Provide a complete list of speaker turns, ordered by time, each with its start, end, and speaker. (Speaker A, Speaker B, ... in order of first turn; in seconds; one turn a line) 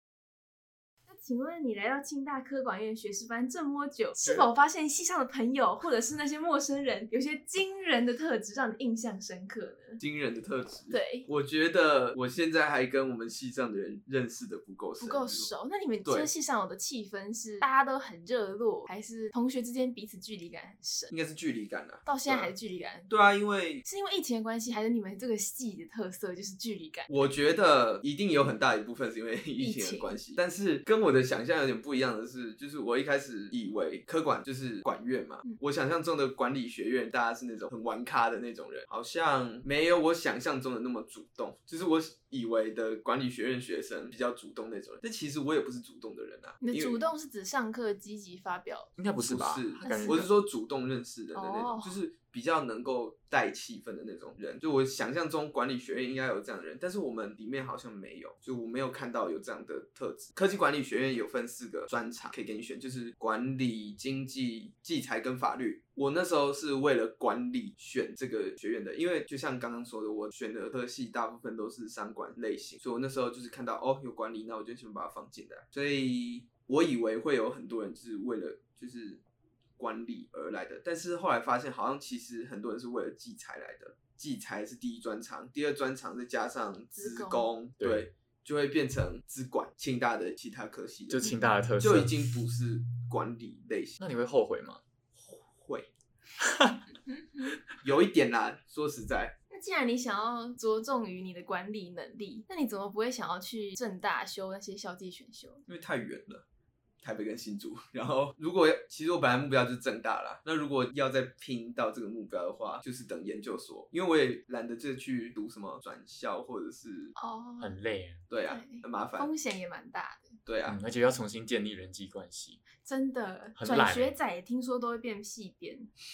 Speaker A: 1.1-10.0
Speaker B: 10.0-15.5
Speaker A: 10.9-11.3
Speaker A: 15.0-21.1
Speaker B: 16.0-16.3
Speaker B: 21.1-22.5
Speaker A: 22.0-23.1
Speaker B: 23.1-23.8
Speaker A: 23.8-27.3
Speaker B: 27.1-47.1
Speaker A: 29.6-30.1
Speaker A: 46.6-48.9
Speaker C: 49.0-50.3
Speaker B: 49.2-79.2
Speaker A: 49.8-50.2
Speaker A: 51.3-52.0
Speaker B: 79.8-94.0
Speaker A: 86.9-87.5
Speaker C: 87.8-88.1
Speaker C: 91.1-92.1
Speaker C: 94.0-94.8
Speaker B: 95.2-95.9
Speaker A: 97.2-97.5
Speaker B: 97.8-99.3
Speaker A: 99.5-105.6
Speaker B: 105.7-106.4
Speaker B: 107.0-117.1
Speaker A: 117.2-117.8
Speaker C: 117.6-118.2
Speaker B: 118.3-119.3
Speaker A: 118.5-120.4
Speaker B: 120.4-120.8
Speaker C: 120.6-122.6
Speaker A: 122.8-125.9
Speaker C: 123.6-124.1